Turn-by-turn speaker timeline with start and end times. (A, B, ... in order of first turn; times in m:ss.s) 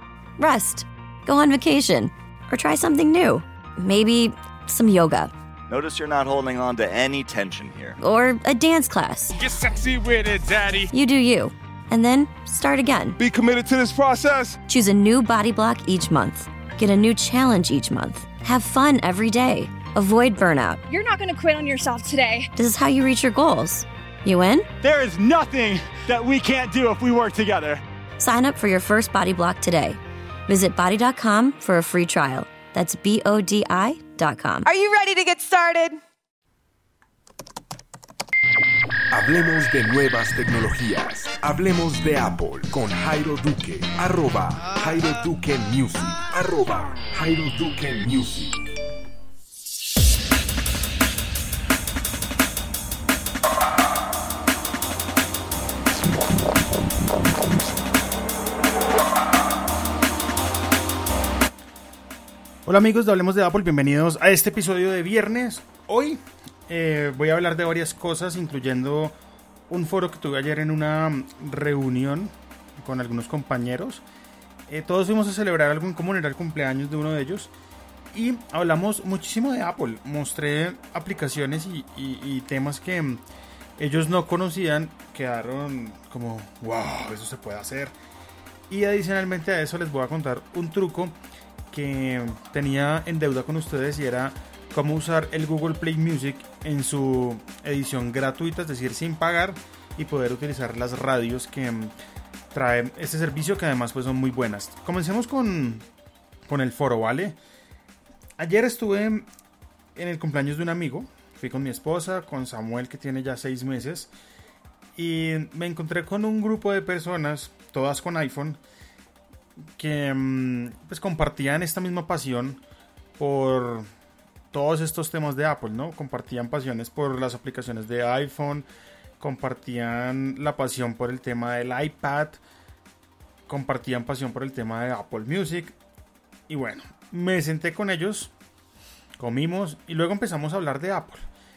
0:00.4-0:05.3 A
0:05.7-0:08.0 B
0:08.0-0:09.4 A
0:09.3-0:10.9 C
0:10.9-0:13.2 A
0:13.2-0:14.6 C
0:14.7-0:20.8 A
0:20.9-0:22.5 D
0:22.5-0:24.7 A
0:24.8-0:27.8 E
0:28.2-0:34.7 A
0:34.6-0:36.0 D
0:39.1-0:48.6 F
1:02.6-1:09.2 G
1:09.7-1:14.0 G
1:14.7-1:17.5 G
1:18.1-1:23.2 G
1:23.8-1:27.9 G
1:28.7-1:31.2 G
1:31.7-1:41.9 G
1:42.5-1:45.8 G
1:46.4-1:47.4 G
1:48.4-1:49.3 G
1:49.9-1:54.1 G
1:55.0-1:58.6 G
1:59.8-2:02.6 G
2:03.2-2:03.9 G
2:04.5-2:08.7 G
2:09.2-2:12.4 G
2:13.5-2:15.8 G
2:16.5-2:18.3 G
2:19.2-2:21.2 G